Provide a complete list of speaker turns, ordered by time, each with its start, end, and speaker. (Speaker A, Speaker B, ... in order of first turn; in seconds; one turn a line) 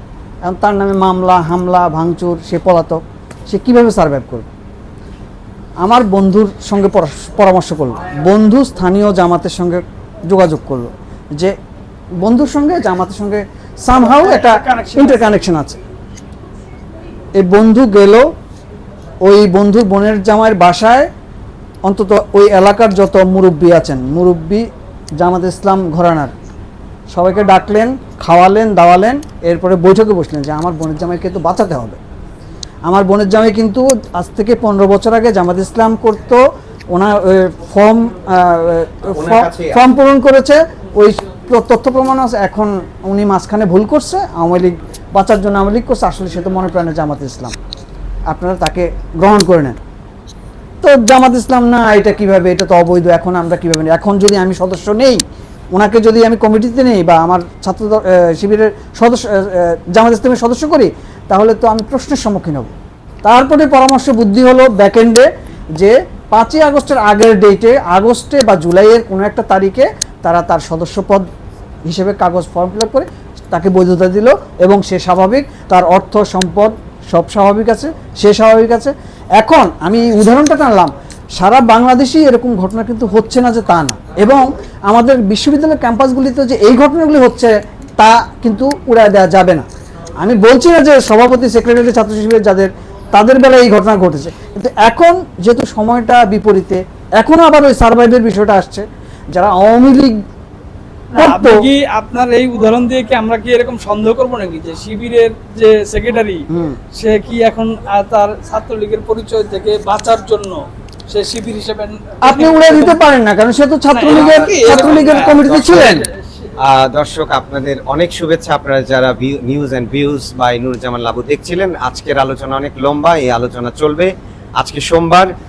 Speaker A: 0.5-4.5
Speaker A: 5.8-11.6
Speaker A: 12.2-15.8
Speaker B: 14.0-15.3
Speaker A: 17.4-18.2
Speaker A: 19.2-21.1
Speaker A: 21.9-24.6
Speaker A: 25.2-26.3
Speaker A: 27.1-32.0
Speaker A: 32.9-47.5
Speaker C: 39.1-39.8
Speaker A: 48.3-49.8
Speaker A: 50.8-55.2
Speaker A: 55.7-62.7
Speaker A: 63.2-65.3
Speaker A: 65.8-71.3
Speaker A: 71.8-89.7
Speaker A: 90.2-100.2
Speaker B: 101.1-110.6
Speaker A: 101.2-101.7
Speaker A: 106.5-106.8
Speaker B: 111.1-113.0
Speaker A: 112.2-116.0
Speaker B: 113.9-116.1
Speaker C: 114.1-116.0
Speaker C: 116.6-125.3